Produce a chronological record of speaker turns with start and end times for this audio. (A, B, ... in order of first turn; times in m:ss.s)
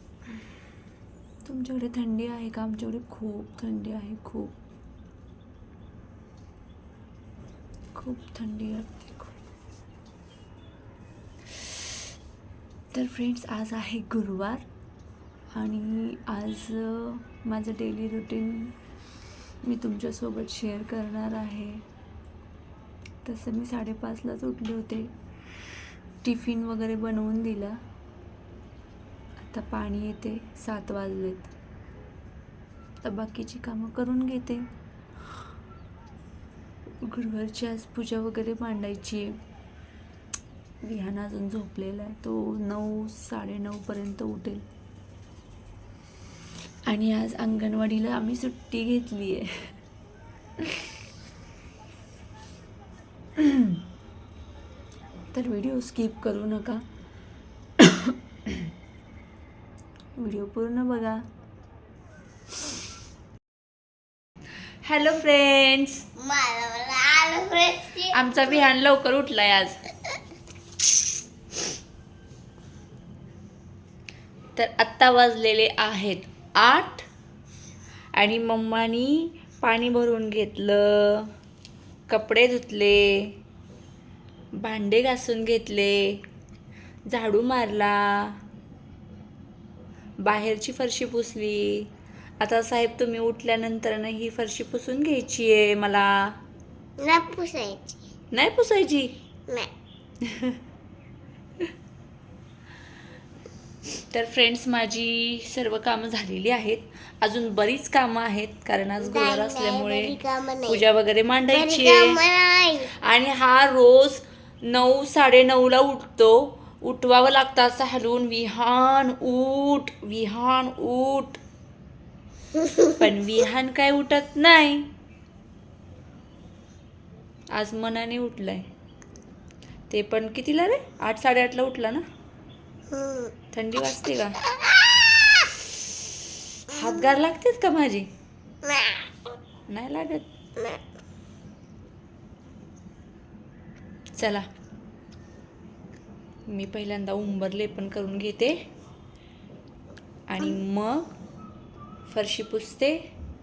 0:01.4-0:04.5 A
0:07.9-0:09.3 A
0:12.9-0:14.6 A
0:15.5-0:18.7 A
0:19.6-0:21.8 A
0:23.2-0:25.1 A
0:26.2-0:27.8 A
0:29.4-0:31.5 A
0:33.0-0:34.6 A
0:37.0-0:39.4 A
0:40.8-0:44.6 A
0:46.9-0:49.7 A
0:53.4-0:53.8 A
0:55.3-0:56.8 A
0:57.8-0:58.7 A
1:00.2-1:01.2 A
1:04.8-1:06.0 A
1:06.2-1:08.6 B
1:08.1-1:09.8 A
1:14.5-1:17.1 A
1:18.1-1:21.3 A
1:22.1-1:23.4 A
1:24.6-1:26.2 A
1:27.1-1:28.4 A
1:30.2-1:31.9 A
1:32.4-1:36.1 A
1:37.0-1:38.0 B
1:38.3-1:39.1 A
1:40.2-1:40.6 A
1:44.1-1:52.2 A
1:49.0-1:50.8 B
1:51.5-1:52.9 B
1:53.0-2:01.4 A
2:02.6-2:02.8 B
2:02.8-2:04.9 A
2:07.5-2:08.7 A
2:09.9-2:12.0 A
2:12.9-2:13.3 B
2:13.5-2:14.4 A
2:14.4-2:15.5 B
2:16.7-2:18.1 A
2:18.6-2:19.1 B
2:19.7-2:20.3 A
2:20.6-2:20.8 B
2:24.2-2:24.5 A
2:26.5-2:28.6 A
2:30.3-2:31.1 A
2:32.1-2:33.0 A